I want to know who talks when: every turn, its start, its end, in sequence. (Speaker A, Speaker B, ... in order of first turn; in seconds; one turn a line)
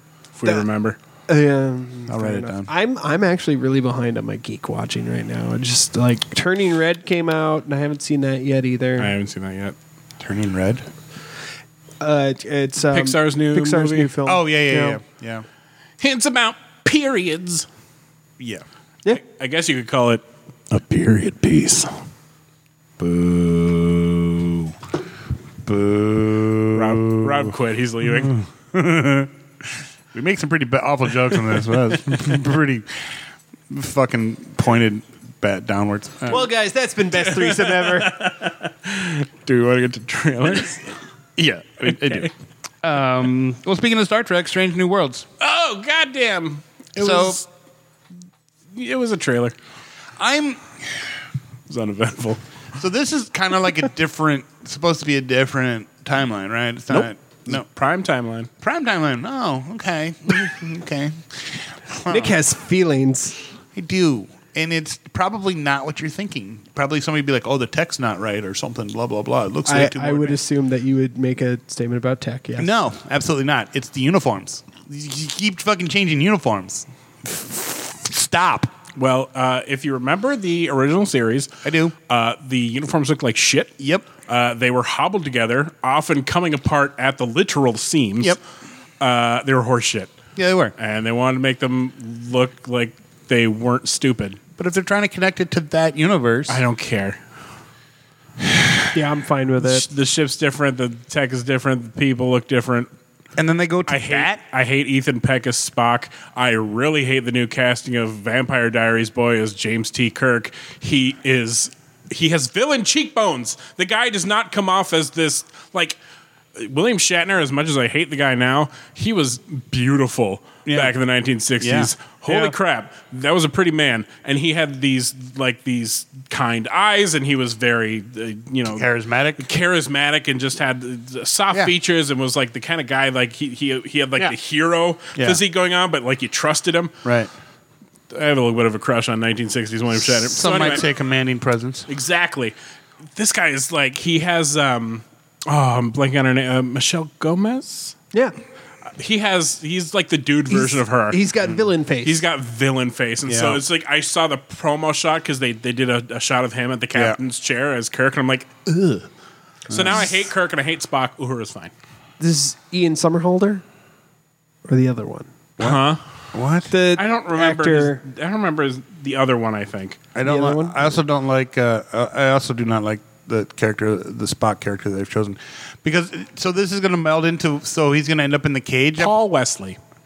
Speaker A: 0.4-1.0
Speaker B: 1.3-9.1
Speaker C: 2.1-2.7
Speaker A: 9.0-9.8
Speaker C: 10.2-10.8
Speaker B: 12.0-15.0
Speaker A: 12.9-14.1
Speaker C: 14.2-15.4
Speaker A: 16.0-17.7
Speaker C: 18.4-18.6
Speaker A: 19.1-21.9
Speaker C: 23.0-24.7
Speaker C: 25.6-33.2
Speaker A: 26.7-28.3
Speaker C: 33.7-36.5
Speaker B: 36.3-38.3
Speaker A: 37.2-41.0
Speaker C: 41.4-45.3
Speaker A: 41.9-42.3
Speaker A: 45.4-47.5
Speaker C: 47.0-47.4
Speaker A: 48.7-49.5
Speaker C: 50.2-51.1
Speaker A: 51.7-52.4
Speaker C: 52.8-57.7
Speaker A: 56.9-58.5
Speaker C: 58.6-62.4
Speaker B: 62.1-63.4
Speaker C: 63.7-70.4
Speaker B: 69.7-72.7
Speaker C: 72.6-78.7
Speaker A: 79.0-81.5
Speaker C: 81.6-81.9
Speaker A: 82.1-88.4
Speaker C: 83.8-84.1
Speaker A: 89.0-90.1
Speaker C: 90.3-90.7
Speaker A: 90.8-94.4
Speaker C: 94.6-96.6
Speaker A: 96.5-97.2
Speaker B: 98.9-99.8
Speaker A: 99.6-102.9
Speaker C: 103.3-104.4
Speaker A: 103.9-116.0
Speaker A: 116.5-128.9
Speaker C: 120.7-120.9
Speaker C: 121.6-122.5
Speaker C: 128.7-129.4
Speaker A: 129.4-136.9
Speaker C: 135.2-135.4
Speaker C: 137.0-137.3
Speaker A: 138.1-140.8
Speaker C: 140.0-141.9
Speaker A: 141.9-142.5
Speaker A: 143.1-147.9
Speaker A: 149.0-151.3
Speaker B: 150.5-152.2
Speaker A: 152.0-159.1
Speaker C: 153.2-153.6
Speaker C: 156.9-157.2
Speaker C: 159.7-160.1
Speaker A: 159.7-161.7
Speaker B: 162.2-163.6
Speaker B: 164.7-165.3
Speaker A: 165.6-166.0
Speaker C: 165.6-166.7
Speaker B: 166.7-168.0
Speaker A: 166.9-170.0
Speaker C: 170.1-179.1
Speaker B: 170.2-170.9
Speaker A: 179.0-179.8